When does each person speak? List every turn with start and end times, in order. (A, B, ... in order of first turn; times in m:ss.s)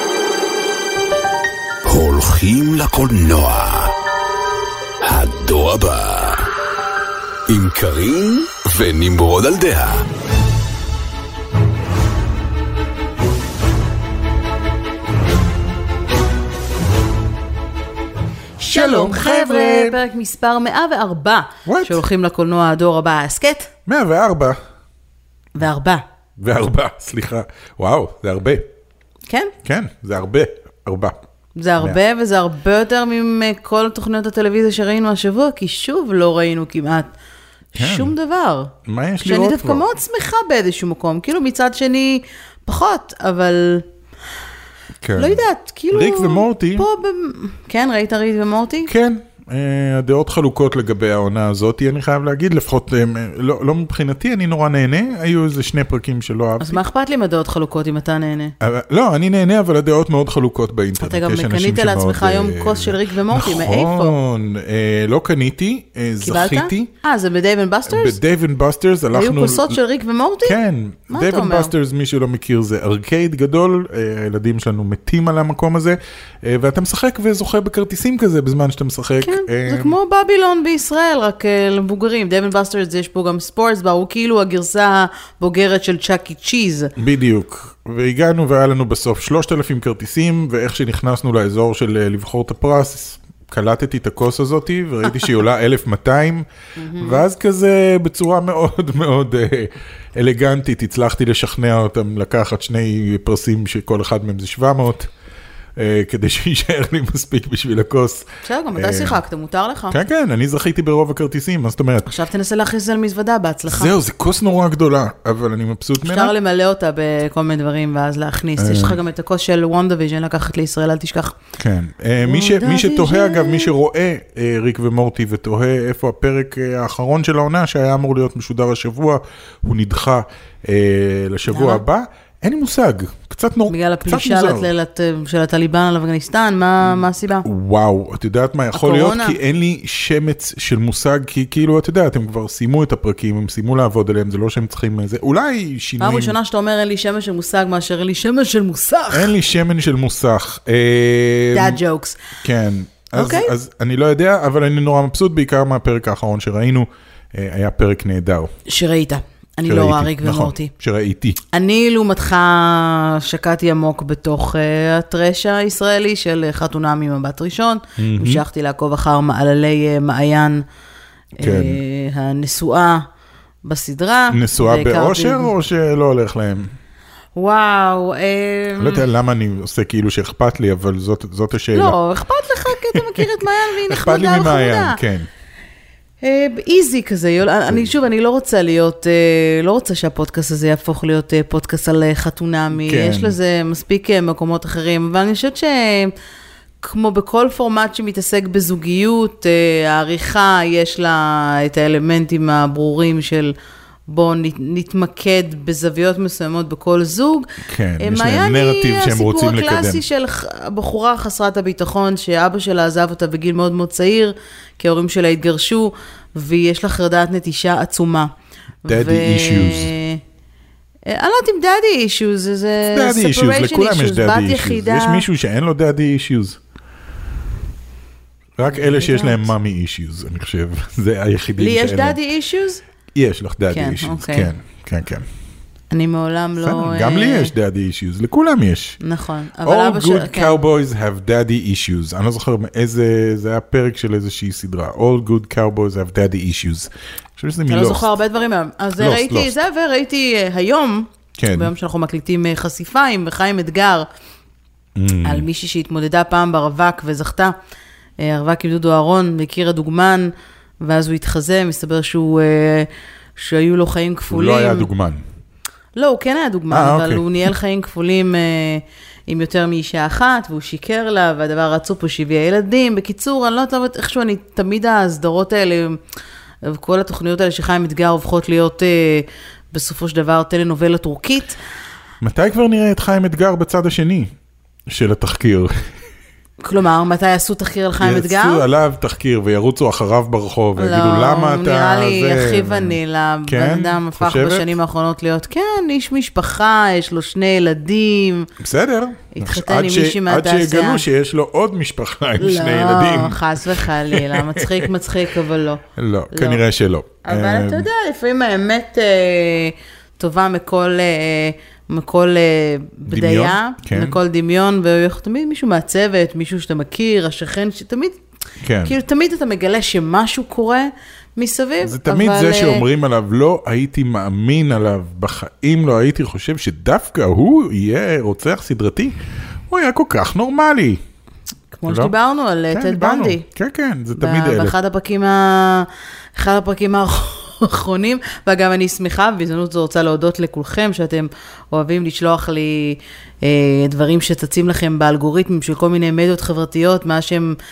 0:01.8-0:03.9 A
0:05.0-0:06.5 A
0:07.5-0:10.0 A
0:18.6-0:23.7 B
0:18.7-0:20.0 C
0:21.7-0:22.0 C
0:23.9-0:24.6 C
0:25.6-0:26.0 B
0:26.4-0:28.7 C
0:29.3-0:29.5 B
0:29.6-0:31.2 C
0:31.6-0:37.1 B
0:37.7-0:43.8 B
0:37.8-0:38.2 C
0:38.9-0:39.8 C
0:45.0-0:46.9 C
0:45.2-0:48.9 B
0:48.9-0:56.8 C
0:56.6-0:58.6 B
0:58.6-1:06.9 C
1:01.0-1:04.2 B
1:06.2-1:08.2 B
1:07.9-1:09.8 C
1:09.1-1:10.6 B
1:10.4-1:20.0 C
1:11.1-1:11.7 B
1:19.2-1:26.9 B
1:27.0-1:45.1 C
1:36.8-1:37.2 B
1:45.8-1:49.2 C
1:48.4-1:50.0 B
1:49.9-1:52.1 C
1:52.1-1:53.9 B
1:53.7-1:56.3 C
1:56.0-2:01.4 B
1:58.6-1:59.0 C
2:01.6-2:14.7 C
2:02.2-2:03.7 B
2:11.5-2:11.8 B
2:13.7-2:17.5 B
2:16.8-2:26.4 C
2:18.7-2:19.4 B
2:26.0-2:29.3 B
2:29.1-2:31.8 C
2:31.5-2:32.2 B
2:32.4-2:38.5 C
2:33.1-2:33.5 B
2:38.7-2:40.7 B
2:39.7-2:41.4 C
2:41.5-2:50.6 B
2:48.0-2:48.4 C
2:51.4-2:53.1 B
2:51.4-2:51.8 C
2:53.6-2:55.5 B
2:54.3-2:56.7 C
2:57.4-2:59.1 B
2:58.8-3:02.0 C
3:01.7-3:05.0 B
3:02.9-3:03.3 C
3:03.9-3:05.3 C
3:06.2-3:16.1 B
3:12.8-3:13.4 C
3:16.8-3:23.5 B
3:24.1-3:38.3 B
3:27.6-3:30.0 C
3:38.8-3:40.2 B
3:38.9-3:39.9 C
3:41.1-3:45.2 B
3:42.9-3:46.6 C
3:48.6-3:52.2 C
3:48.7-3:49.5 B
3:51.6-3:52.8 B
3:53.1-3:55.3 C
3:53.7-3:54.5 B
3:55.9-3:57.5 B
3:56.6-3:59.0 C
3:59.0-4:00.6 B
3:59.6-4:08.1 C
4:07.7-4:14.1 B
4:09.0-4:09.6 C
4:11.4-4:11.7 C
4:15.0-4:15.5 C
4:15.2-4:17.5 B
4:18.2-4:24.9 B
4:24.3-4:25.2 C
4:26.0-4:36.0 B
4:26.7-4:27.3 C
4:36.6-4:41.6 B
4:42.2-4:44.3 C
4:44.9-4:45.7 C
4:46.6-4:48.6 B
4:48.0-4:54.7 C
4:50.8-4:58.5 B
4:58.6-5:04.9 C
4:59.3-5:01.0 B
5:02.4-5:06.6 B
5:06.0-5:07.9 C
5:07.2-5:18.2 B
5:13.1-5:14.2 C
5:18.6-5:19.0 C
5:18.8-5:22.8 B
5:21.8-5:29.1 C
5:29.7-5:31.0 C
5:31.7-5:33.4 B
5:31.9-5:32.1 C
5:32.7-5:34.8 C
5:34.2-5:47.6 B